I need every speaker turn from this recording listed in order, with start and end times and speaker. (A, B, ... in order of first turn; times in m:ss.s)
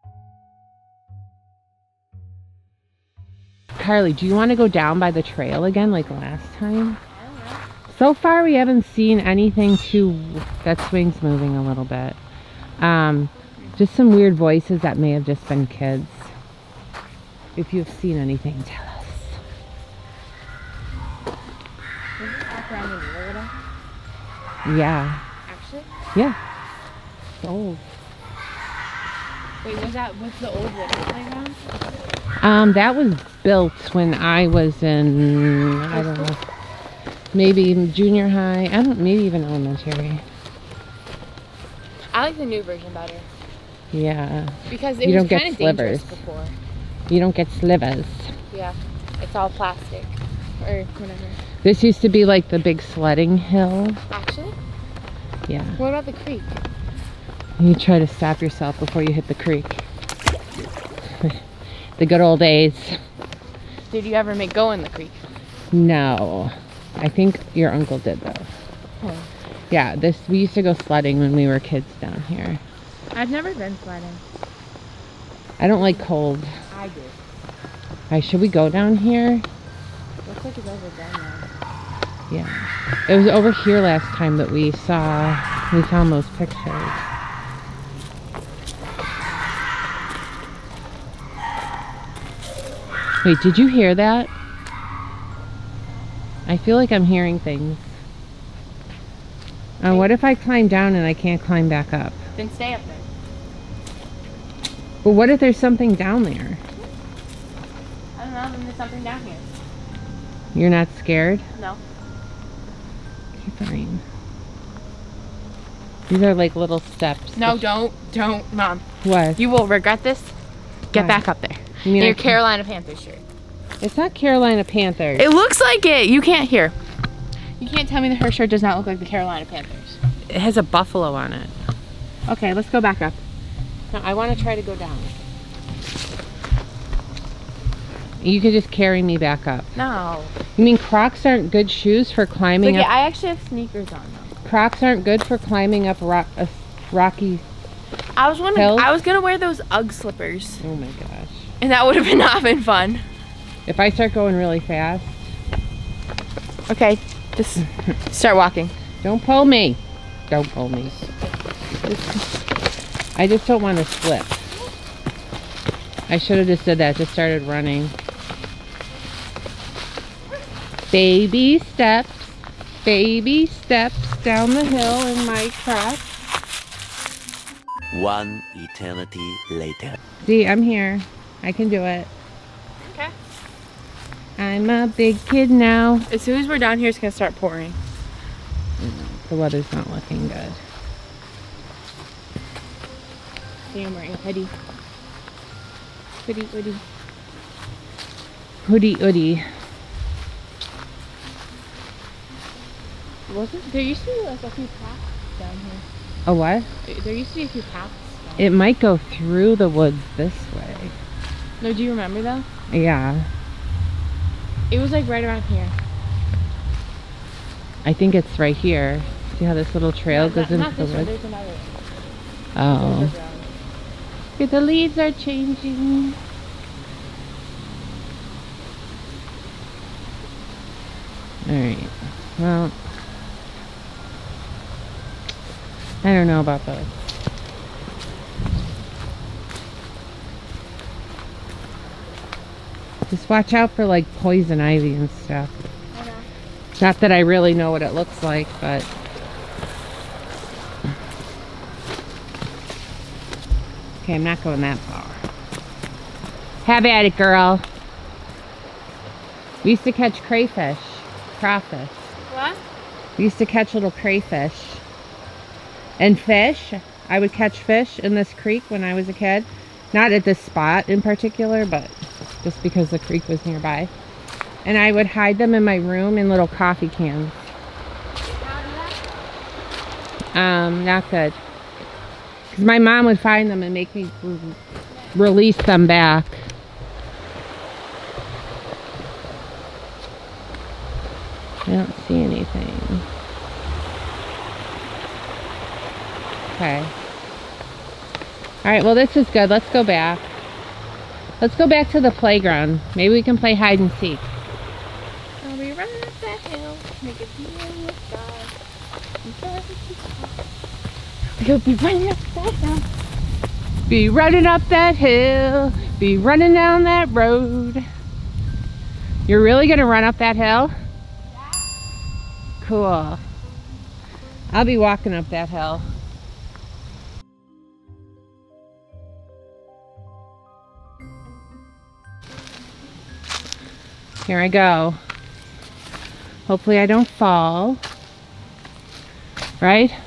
0:03.8-0:07.0 A
0:07.1-0:07.6 B
0:07.9-0:12.2 A
0:12.8-0:16.3 A
0:17.6-0:19.4 A
0:22.2-0:23.5 B
0:24.6-0:25.2 A
0:25.5-0:25.9 B
0:27.4-0:27.8 A
0:29.6-0:31.6 B
0:32.4-0:36.4 A
0:35.9-0:36.3 B
0:37.3-0:40.2 A
0:42.1-0:43.3 B
0:43.9-0:46.2 A
0:44.7-0:46.6 B
0:47.1-0:48.3 A
0:48.5-0:51.4 B
0:51.6-0:54.0 A
0:54.1-0:54.6 B
0:55.5-0:55.8 A
0:55.8-0:56.6 B
0:57.6-0:59.9 A
1:02.0-1:03.0 A
1:03.9-1:05.2 B
1:05.7-1:08.5 A
1:09.0-1:09.3 B
1:09.7-1:12.6 A
1:13.1-1:14.2 B
1:15.6-1:16.5 A
1:15.8-1:16.0 B
1:16.7-1:17.2 B
1:18.1-1:19.4 A
1:20.2-1:21.5 B
1:22.3-1:27.1 A
1:33.2-1:34.3 A
1:36.5-1:37.9 A
1:39.8-1:42.2 A
1:42.4-1:43.1 B
1:45.0-1:46.6 A
1:48.2-1:49.5 B
1:50.5-1:51.4 A
1:51.6-1:51.8 B
1:53.4-1:54.0 A
1:56.1-1:57.7 A
1:57.4-1:58.8 B
1:59.0-1:59.4 A
1:59.4-2:00.3 B
2:00.9-2:03.2 B
2:00.9-2:01.2 A
2:01.8-2:02.4 A
2:03.8-2:05.3 A
2:05.2-2:06.8 B
2:07.6-2:10.0 B
2:10.3-2:11.6 A
2:12.3-2:13.2 B
2:13.9-2:15.2 A
2:18.2-2:19.7 A
2:19.8-2:20.4 B
2:20.6-2:22.9 A
2:22.6-2:24.3 B
2:24.4-2:27.4 A
2:28.2-2:30.6 B
2:28.6-2:28.9 A
2:30.6-2:31.5 A
2:31.6-2:33.0 B
2:33.7-2:35.3 A
2:36.7-2:38.7 B
2:39.0-2:41.1 A
2:41.8-2:42.3 A
2:43.2-2:44.4 A
2:46.1-2:48.0 A
2:50.9-2:56.1 A
2:57.9-3:00.0 C
3:00.2-3:02.1 A
3:02.8-3:03.1 B
3:04.4-3:06.1 A
3:06.1-3:07.8 B
3:08.8-3:10.6 A
3:13.7-3:14.5 B
3:16.2-3:16.8 B
3:18.6-3:19.4 A
3:23.3-3:25.8 B
3:26.3-3:26.7 A
3:26.8-3:28.5 B
3:28.4-3:31.0 A
3:31.6-3:32.5 B
3:32.7-3:33.3 A
3:34.7-3:35.8 B
3:37.8-3:41.1 A
3:40.1-3:41.8 B
3:42.6-3:43.1 A
3:42.6-3:43.5 B
3:44.4-3:46.2 A
3:51.4-3:52.7 A
3:56.0-3:57.0 A
4:03.1-4:05.5 A
4:05.9-4:06.3 B
4:06.8-4:08.9 A
4:14.0-4:15.2 A
4:16.6-4:17.6 A
4:19.6-4:22.1 A
4:22.3-4:22.6 B
4:23.2-4:24.8 A
4:26.0-4:33.9 A
4:34.6-4:37.5 A
4:38.3-4:39.2 B
4:40.3-4:41.4 A
4:42.5-4:44.6 A
4:45.1-4:46.5 A
4:51.7-4:53.1 A
4:56.5-4:56.9 A
4:58.6-5:00.3 A
5:01.4-5:04.3 A
5:05.4-5:08.5 B
5:09.2-5:10.4 B
5:11.4-5:12.8 B
5:13.9-5:17.8 A
5:19.3-5:20.7 A
5:22.6-5:23.2 A
5:24.5-5:25.8 A
5:34.3-5:35.0 A
5:36.5-5:37.8 A
5:39.6-5:40.0 A